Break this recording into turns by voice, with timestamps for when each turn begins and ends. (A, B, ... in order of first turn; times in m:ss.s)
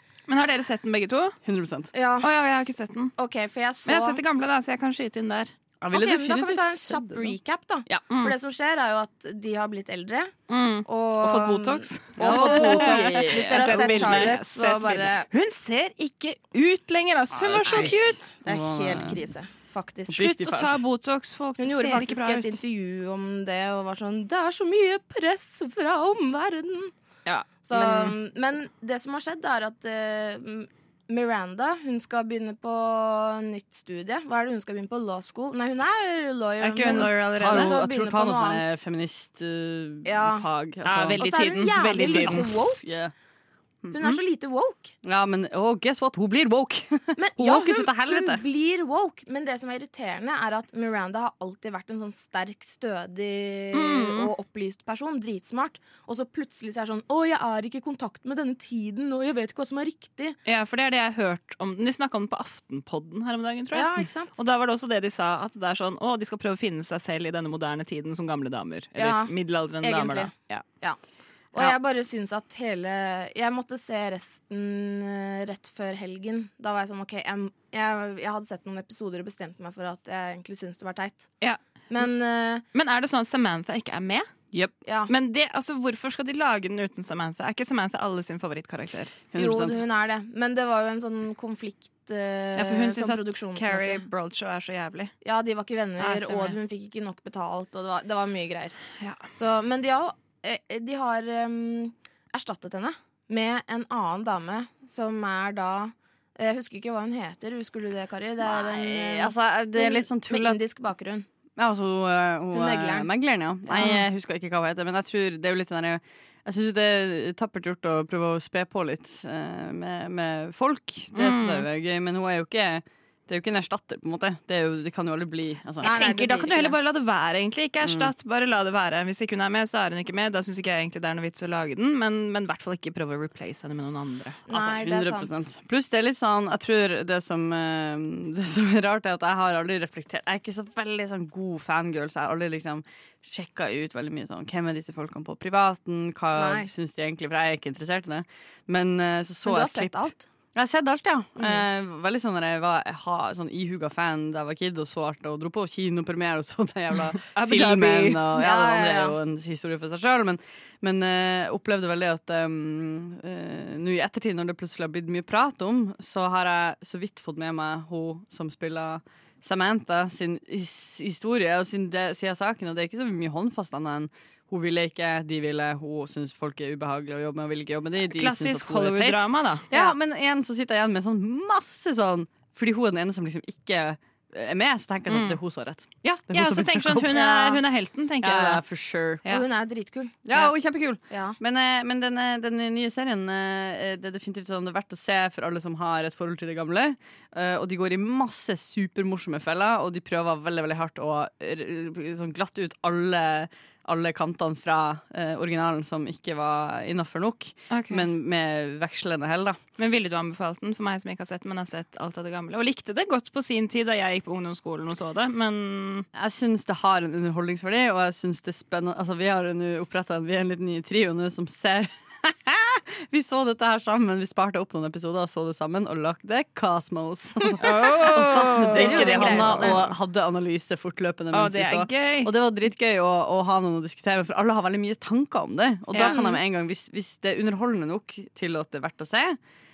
0:00.3-0:01.4 A
0:01.4-0:01.9 B
0:01.9-0:02.3 C
0:02.2-0:03.1 A
0:03.2-0:04.2 C
0:03.9-0:05.5 A
0:05.8-0:07.4 B
0:05.9-0:10.3 C
0:10.5-0:18.3 A
0:10.8-0:15.3 C
0:12.2-0:14.3 B
0:17.3-0:19.2 B
0:17.6-0:20.2 C
0:20.1-0:20.8 B
0:20.1-0:22.6 A
0:21.6-0:26.9 C
0:27.3-0:28.0 A
0:27.6-0:38.7 C
0:27.7-0:28.1 B
0:36.6-0:37.8 A
0:36.8-0:41.3 B
0:40.0-0:40.4 C
0:40.8-0:42.5 A
0:41.2-0:42.8 C
0:42.0-0:43.1 B
0:43.9-0:44.9 C
0:45.0-0:48.4 B
0:47.2-1:00.4 C
0:53.7-0:54.3 A
1:00.5-1:10.6 A
1:03.7-1:04.3 C
1:09.0-1:11.0 C
1:11.5-1:21.3 C
1:21.9-1:22.6 C
1:22.7-1:24.3 A
1:24.8-1:25.1 C
1:25.1-1:29.1 A
1:29.3-1:29.8 B
1:29.4-1:34.0 C
1:32.6-1:35.1 A
1:35.2-1:38.8 C
1:36.0-1:36.6 A
1:39.3-1:51.3 C
1:48.4-1:50.6 B
1:51.6-2:06.0 B
1:52.5-1:53.1 C
1:53.7-1:54.0 C
2:01.2-2:01.7 A
2:05.8-2:06.8 C
2:05.8-2:14.4 A
2:07.8-2:08.1 B
2:14.5-2:15.4 C
2:14.5-2:30.0 B
2:26.4-2:26.7 C
2:29.4-2:30.3 C
2:30.6-3:07.2 B
2:37.4-2:38.2 A
2:38.3-2:39.2 C
2:58.1-2:59.7 A
3:05.1-3:05.4 A
3:06.0-3:08.6 A
3:07.1-3:07.6 C
3:08.2-3:09.3 B
3:09.3-3:10.5 C
3:10.2-3:29.6 B
3:11.1-3:11.4 C
3:27.7-3:28.1 A
3:29.8-3:36.1 A
3:36.1-3:59.4 B
3:47.6-3:49.9 A
3:47.8-3:49.8 C
3:51.3-3:52.3 A
3:55.9-3:56.3 A
3:56.0-3:56.4 C